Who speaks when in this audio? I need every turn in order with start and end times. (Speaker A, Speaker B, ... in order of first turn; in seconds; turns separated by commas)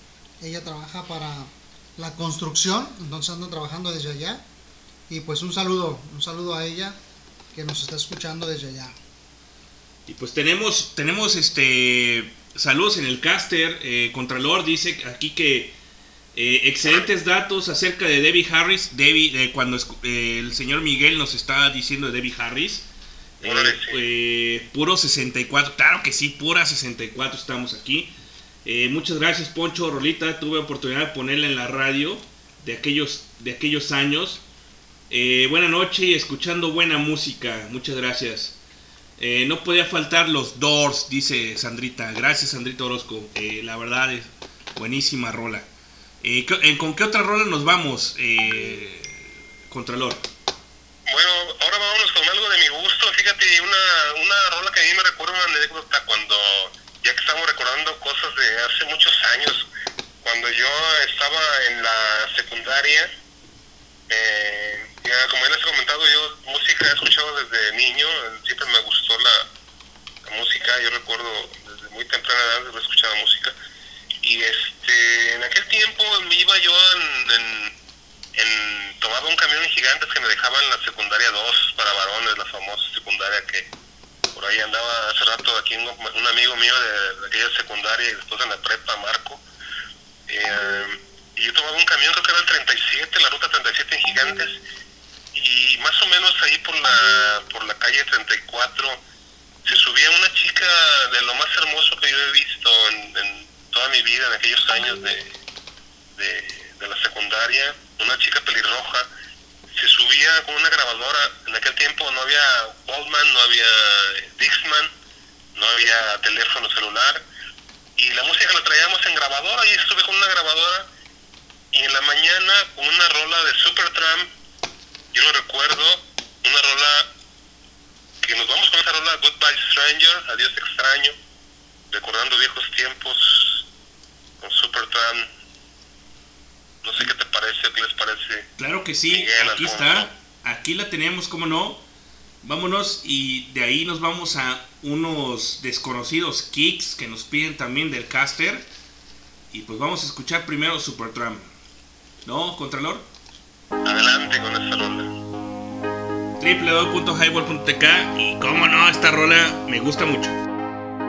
Speaker A: 0.4-4.4, Speaker A: 5.1-7.0, Speaker A: 7.5-8.9, Speaker B: 10.1-15.7, Speaker B: 16.3-22.9, Speaker C: 16.8-17.1, Speaker B: 23.4-28.1, Speaker C: 23.4-24.0, Speaker B: 28.6-34.4, Speaker B: 35.1-38.6, Speaker B: 39.2-45.7, Speaker B: 46.2-50.2, Speaker C: 51.1-59.7, Speaker C: 60.2-63.1, Speaker C: 64.1-69.5, Speaker C: 70.2-73.5, Speaker C: 74.2-77.7, Speaker C: 78.3-83.7, Speaker C: 84.3-89.4, Speaker C: 90.3-94.6, Speaker C: 95.3-99.0, Speaker C: 99.6-105.3, Speaker C: 106.2-109.1, Speaker C: 109.7-114.9, Speaker C: 115.5-117.2, Speaker C: 118.0-120.9, Speaker C: 121.7-124.3, Speaker C: 125.1-127.1, Speaker C: 128.2-131.2, Speaker C: 131.9-133.7, Speaker C: 134.4-135.3, Speaker C: 136.8-138.5, Speaker B: 138.6-141.8, Speaker C: 139.1-140.1, Speaker B: 142.4-148.7, Speaker B: 149.5-151.5, Speaker B: 152.2-153.1, Speaker C: 153.8-155.1, Speaker B: 156.4-160.4